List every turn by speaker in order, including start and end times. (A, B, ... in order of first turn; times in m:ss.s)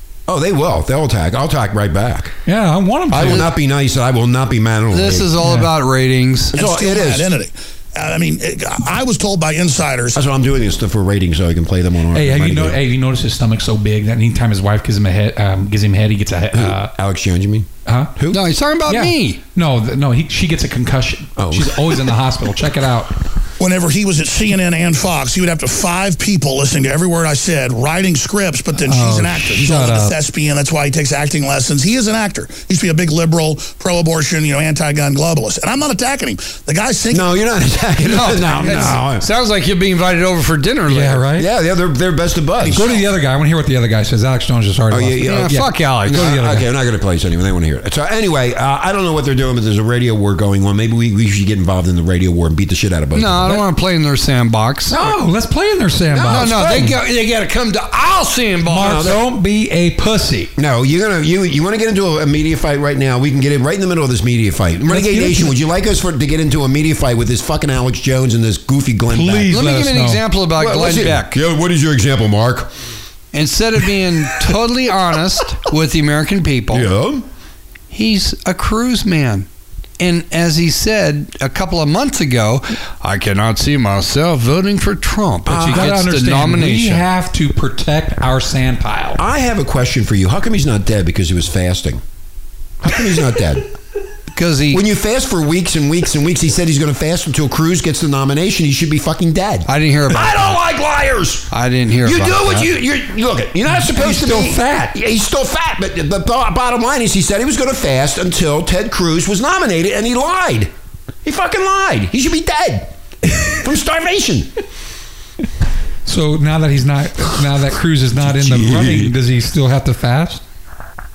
0:00.3-0:02.3 A
0:02.4-0:03.5 B
0:03.1-0:05.3 A
0:04.9-0:06.6 C
0:05.4-0:05.7 B
0:06.5-0:07.3 A
0:06.5-0:10.2 D
0:10.1-0:12.8 A
0:12.1-0:16.9 B
0:16.5-0:18.4 A
0:17.8-0:18.1 B
0:18.3-0:19.4 C
0:18.9-0:23.1 B
0:21.4-0:22.2 A
0:23.6-0:37.2 D
0:28.8-0:30.2 B
0:37.1-0:39.2 A
0:38.0-0:41.3 C
0:38.6-0:39.0 B
0:40.9-0:41.5 B
0:41.3-0:43.0 A
0:42.6-0:46.6 B
0:44.9-0:53.6 A
0:45.2-0:46.3 C
0:53.1-0:55.2 C
0:54.9-0:57.0 B
0:56.1-0:56.9 A
0:56.3-0:59.1 C
0:58.7-1:00.5 B
0:58.7-0:59.2 A
1:00.6-1:09.5 A
1:04.9-1:05.6 B
1:09.1-1:10.2 B
1:09.5-1:11.3 C
1:10.6-1:12.7 A
1:13.3-1:16.9 C
1:16.7-1:17.3 A
1:17.9-1:19.5 C
1:20.0-1:27.0 C
1:25.5-1:25.9 A
1:25.5-1:29.2 B
1:29.2-1:32.0 A
1:32.8-1:33.7 A
1:34.3-1:34.8 C
1:34.7-1:50.7 A
1:39.7-1:40.6 C
1:41.5-1:42.7 C
1:43.7-1:44.9 B
1:51.2-1:54.5 A
1:56.0-2:00.4 B
1:58.1-1:59.2 A